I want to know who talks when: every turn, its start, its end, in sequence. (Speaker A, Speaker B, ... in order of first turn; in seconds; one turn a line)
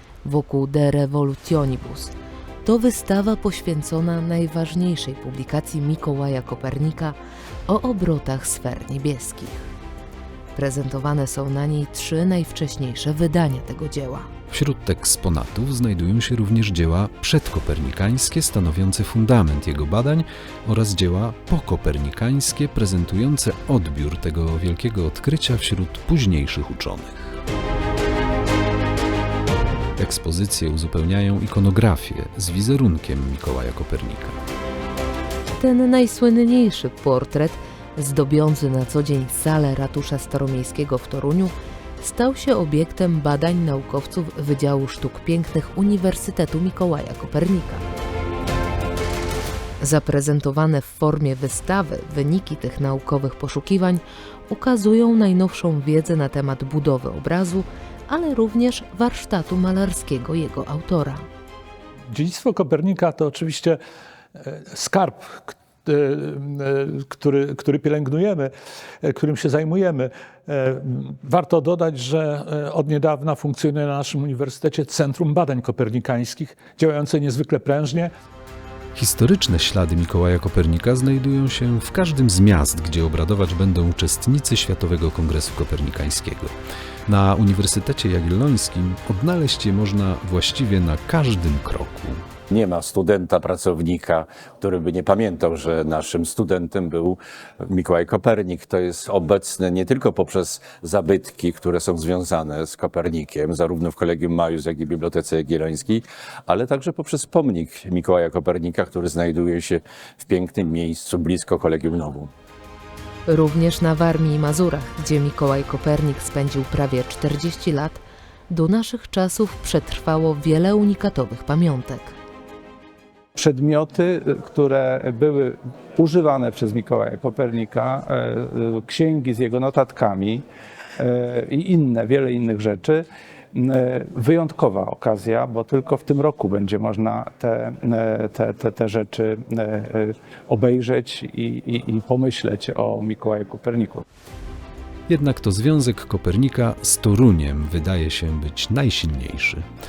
Speaker A: 0.2-9.7
Speaker A: 10.6-14.3
Speaker B: 14.5-27.4
Speaker B: 30.0-34.4
Speaker A: 35.6-47.8
Speaker A: 49.8-61.3
Speaker C: 62.1-63.8
Speaker C: 64.4-78.1
Speaker B: 79.0-86.5
Speaker B: 87.1-92.2
Speaker D: 92.5-112.3
Speaker A: 113.3-122.2
Speaker E: 123.3-130.4
Speaker E: 131.0-144.0
Speaker B: 145.1-149.7